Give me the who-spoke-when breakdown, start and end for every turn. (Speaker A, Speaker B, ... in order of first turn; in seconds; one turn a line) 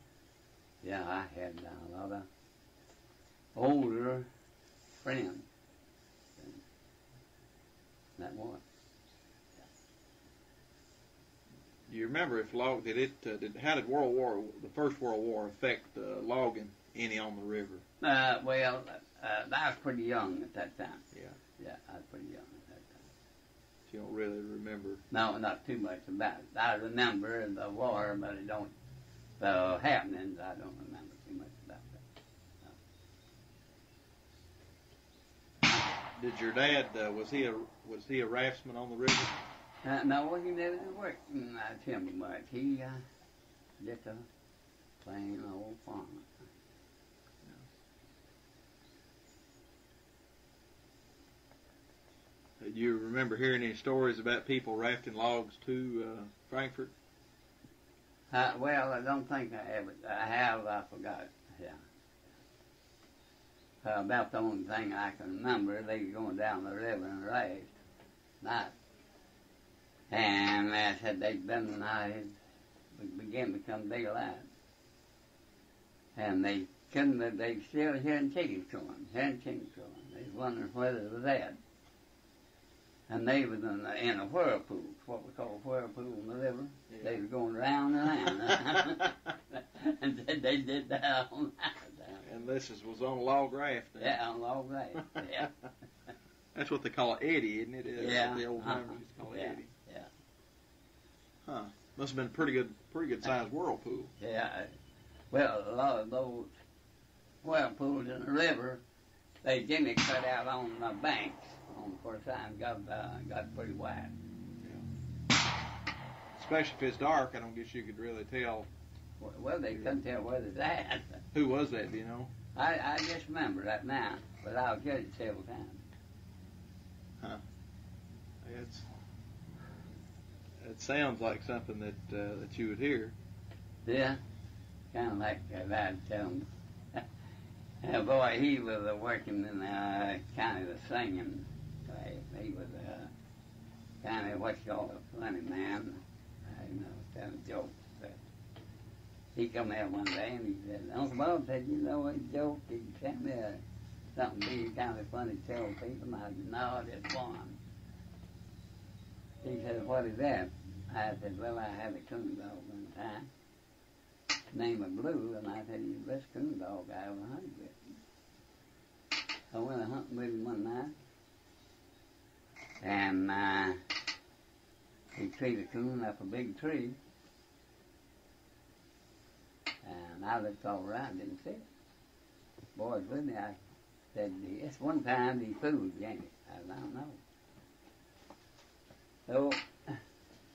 Speaker A: 0.8-2.3
Speaker A: 3.5-4.3
Speaker A: 5.0-5.5
Speaker A: 8.2-8.6
Speaker B: 11.9-17.8
Speaker A: 18.0-21.0
Speaker A: 21.6-23.1
Speaker B: 23.9-25.0
Speaker A: 25.1-28.7
Speaker A: 29.4-32.0
Speaker B: 36.1-39.4
Speaker A: 39.8-43.0
Speaker A: 43.8-44.2
Speaker A: 45.0-46.3
Speaker B: 52.6-56.9
Speaker A: 58.3-61.8
Speaker A: 63.8-67.7
Speaker A: 68.4-68.7
Speaker A: 70.1-72.4
Speaker A: 72.9-74.5
Speaker A: 76.2-81.6
Speaker A: 83.1-92.2
Speaker B: 86.9-87.2
Speaker B: 88.4-89.0
Speaker B: 92.2-94.2
Speaker A: 94.0-95.5
Speaker B: 95.1-95.7
Speaker B: 96.5-99.7
Speaker A: 98.0-100.1
Speaker B: 101.4-104.1
Speaker A: 104.2-104.7
Speaker A: 105.3-106.5
Speaker A: 107.4-108.8
Speaker A: 109.4-114.1
Speaker B: 116.3-118.7
Speaker A: 119.2-121.2
Speaker B: 121.3-122.3
Speaker A: 122.5-125.8
Speaker B: 128.4-128.8
Speaker B: 130.6-133.1
Speaker A: 133.8-134.2
Speaker A: 134.9-137.0
Speaker A: 137.8-143.1
Speaker A: 144.0-148.2
Speaker A: 149.3-153.6
Speaker A: 154.1-157.6
Speaker A: 159.4-163.3
Speaker A: 164.5-167.8
Speaker A: 169.5-170.9
Speaker A: 172.8-173.8
Speaker A: 175.1-177.0
Speaker A: 179.8-181.7
Speaker A: 182.7-183.6
Speaker A: 184.1-187.2
Speaker A: 189.3-190.0